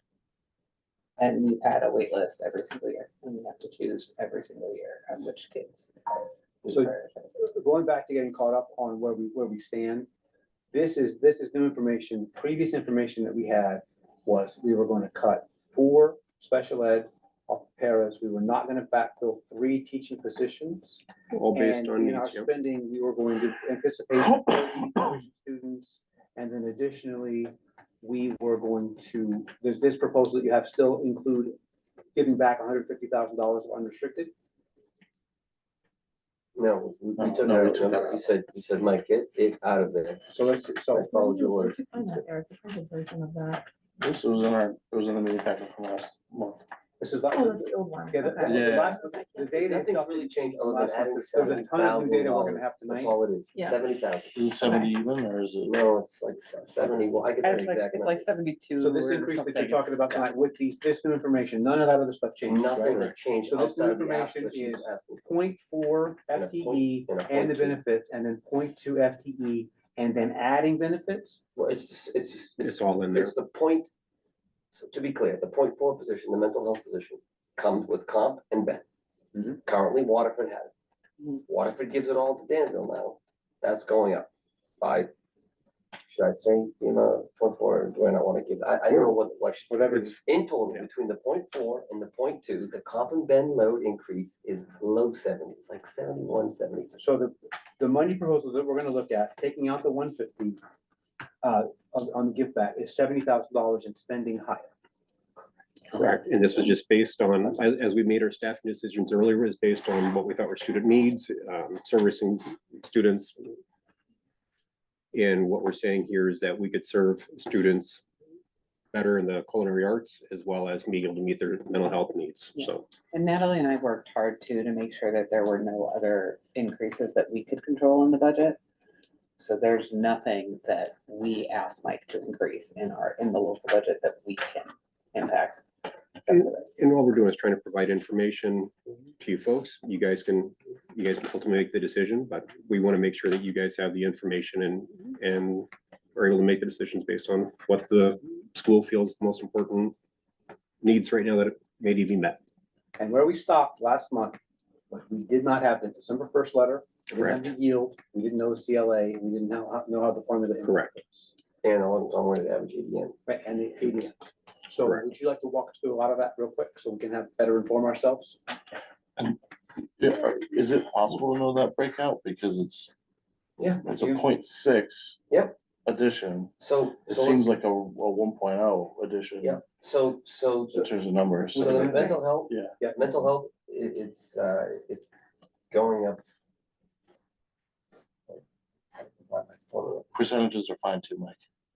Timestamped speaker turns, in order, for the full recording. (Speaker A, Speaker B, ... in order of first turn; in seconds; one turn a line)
Speaker A: 1.2-6.1
Speaker A: 6.6-7.4
Speaker B: 6.7-10.1
Speaker B: 10.7-21.0
Speaker C: 21.3-22.5
Speaker B: 21.5-31.6
Speaker B: 32.1-34.3
Speaker D: 36.6-40.2
Speaker E: 37.2-38.2
Speaker B: 40.3-41.0
Speaker D: 40.9-42.3
Speaker F: 41.0-43.7
Speaker E: 44.0-46.7
Speaker B: 47.0-53.1
Speaker F: 47.3-49.5
Speaker E: 48.5-49.0
Speaker D: 49.5-54.8
Speaker F: 53.5-53.9
Speaker E: 54.4-55.8
Speaker F: 54.6-54.9
Speaker D: 55.6-58.3
Speaker A: 57.4-60.5
Speaker B: 58.8-71.4
Speaker D: 62.5-65.3
Speaker D: 66.3-67.8
Speaker D: 71.6-73.9
Speaker C: 72.6-73.3
Speaker D: 74.7-78.8
Speaker D: 79.7-80.7
Speaker D: 81.4-84.3
Speaker D: 84.8-85.1
Speaker D: 86.1-97.0
Speaker B: 89.7-90.2
Speaker B: 97.0-100.6
Speaker B: 101.4-104.7
Speaker C: 105.9-113.6
Speaker C: 115.1-118.0
Speaker C: 118.9-122.9
Speaker A: 122.6-128.6
Speaker A: 129.4-135.6
Speaker A: 136.2-136.8
Speaker C: 136.3-149.9
Speaker C: 150.8-152.4
Speaker B: 153.0-154.4
Speaker B: 154.9-161.3
Speaker C: 157.1-157.4
Speaker C: 160.6-160.9
Speaker D: 161.6-163.2
Speaker B: 163.3-168.4
Speaker E: 170.0-172.9
Speaker D: 173.6-173.8
Speaker E: 173.8-175.2
Speaker D: 175.3-175.6
Speaker E: 175.8-176.5
Speaker D: 176.6-177.5
Speaker E: 177.1-179.6
Speaker D: 179.4-180.9
Speaker E: 180.7-182.8
Speaker B: 181.5-183.1
Speaker D: 181.6-185.1
Speaker D: 185.7-186.2
Speaker D: 189.0-190.1
Speaker E: 190.1-191.4